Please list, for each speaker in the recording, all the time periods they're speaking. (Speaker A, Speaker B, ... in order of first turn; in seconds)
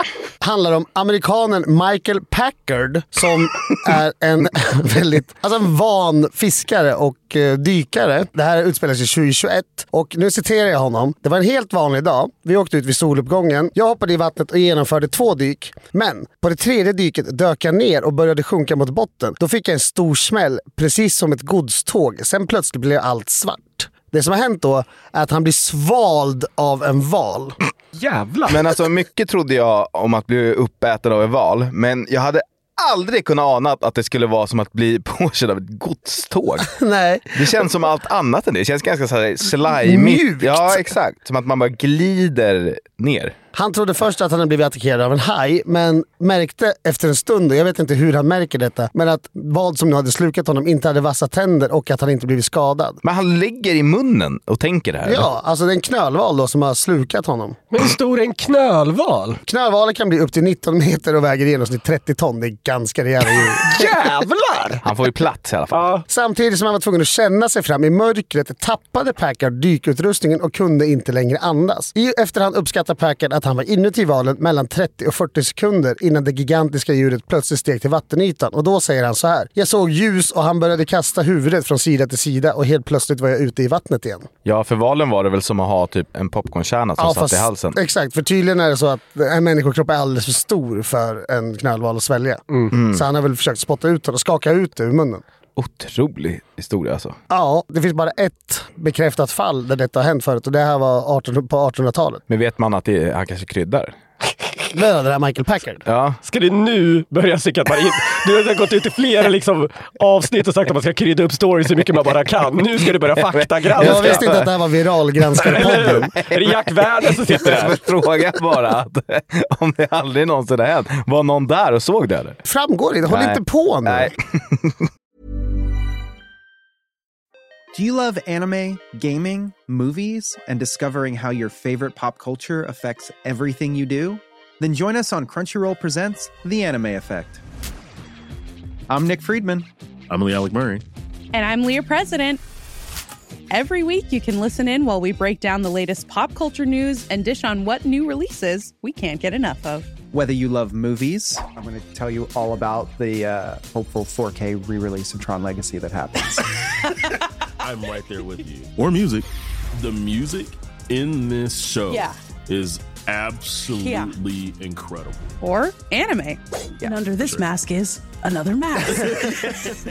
Speaker A: 0.4-27.6, 36.6-37.6, 39.7-41.0, 43.5-53.0, 55.0-57.6, 59.4-63.9, 66.1-84.3, 87.0-95.2, 97.3-102.2, 104.7-105.8, 113.8-116.1, 122.5-124.1
Speaker B: 28.0-28.6, 57.7-59.4, 63.6-64.8, 65.7-66.0, 106.2-114.2, 115.4-117.8
Speaker C: 28.5-36.7, 37.3-43.4, 53.0-55.3, 64.8-65.9, 84.5-87.8, 92.7-93.0, 95.6-97.2, 102.3-103.9, 105.8-106.2, 113.2-114.5, 115.9-116.6, 117.3-122.4, 123.1-124.8
Speaker D: 127.7-137.4, 138.9-139.7, 150.1-156.5
Speaker E: 140.1-140.8, 157.6-165.3, 167.1-167.5
Speaker F: 141.3-142.4, 143.5-149.9, 163.8-164.1, 165.4-166.4
Speaker G: 166.8-169.5